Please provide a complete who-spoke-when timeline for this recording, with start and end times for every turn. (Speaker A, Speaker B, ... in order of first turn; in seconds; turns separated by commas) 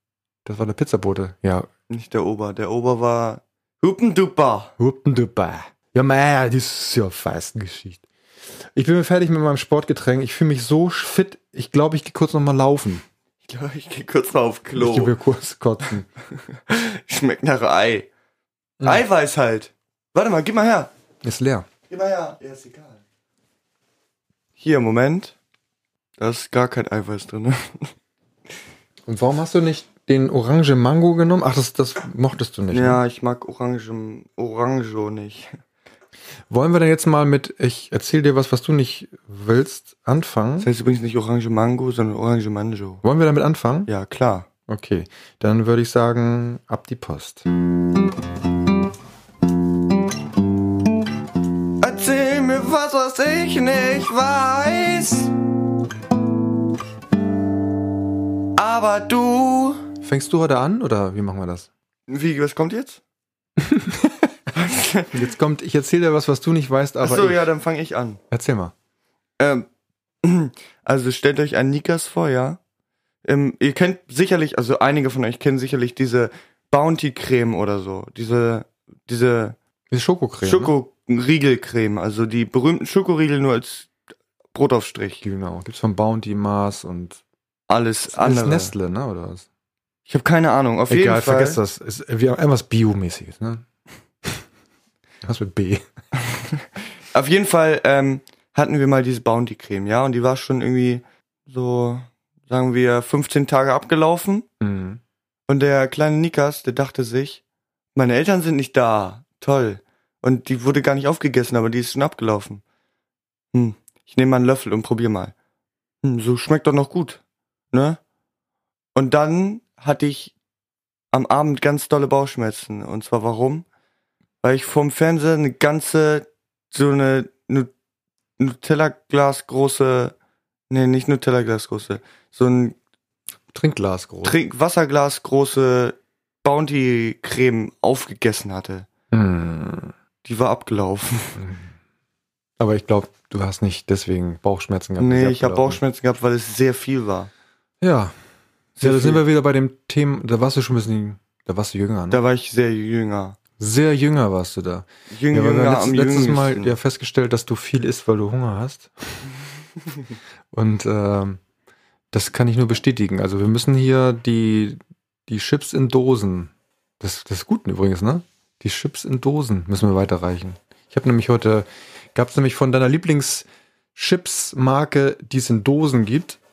Speaker A: 0.5-1.7, Speaker B: 1.9-4.7, Speaker A: 4.8-8.0, Speaker A: 8.8-13.1, Speaker B: 13.4-15.1, Speaker A: 14.8-16.1, Speaker B: 16.4-18.1, Speaker A: 18.8-19.1, Speaker B: 18.8-20.9, Speaker A: 21.2-21.7, Speaker B: 21.9-23.0, Speaker B: 24.6-25.4, Speaker B: 26.2-27.9, Speaker A: 29.1-33.0, Speaker B: 32.7-35.6, Speaker A: 36.5-40.7, Speaker B: 40.6-43.0, Speaker A: 43.0-43.9, Speaker B: 43.9-44.5, Speaker A: 44.7-47.5, Speaker B: 51.8-55.3, Speaker B: 58.6-59.8, Speaker A: 60.0-61.7, Speaker B: 62.1-63.0, Speaker A: 63.6-64.2, Speaker B: 64.5-65.1, Speaker A: 65.1-67.5, Speaker B: 67.0-68.2, Speaker A: 68.3-68.7, Speaker B: 69.4-69.7, Speaker B: 70.2-72.6, Speaker B: 73.2-79.6, Speaker A: 79.9-80.7, Speaker B: 80.4-83.9, Speaker B: 84.5-85.2, Speaker A: 85.2-87.2, Speaker B: 87.7-88.7, Speaker A: 88.1-89.5, Speaker B: 90.1-91.6, Speaker A: 90.9-93.6, Speaker A: 95.2-95.8, Speaker B: 97.1-104.5, Speaker A: 104.6-105.0, Speaker B: 105.5-107.4, Speaker B: 108.0-112.6, Speaker B: 113.5-115.3, Speaker B: 116.0-117.2, Speaker B: 117.7-118.0, Speaker B: 119.0-120.3, Speaker B: 121.1-123.6, Speaker B: 124.4-127.7, Speaker B: 128.4-130.1, Speaker B: 130.7-132.8, Speaker A: 133.5-134.4, Speaker B: 134.2-138.9, Speaker A: 139.1-139.9, Speaker B: 140.2-141.4, Speaker A: 141.4-141.7, Speaker A: 142.6-145.8, Speaker B: 145.0-147.3, Speaker A: 147.8-148.1, Speaker B: 148.8-149.2, Speaker A: 148.8-152.2, Speaker B: 152.1-153.4, Speaker A: 153.6-159.2, Speaker B: 155.1-156.8, Speaker A: 160.5-161.4, Speaker A: 162.1-176.4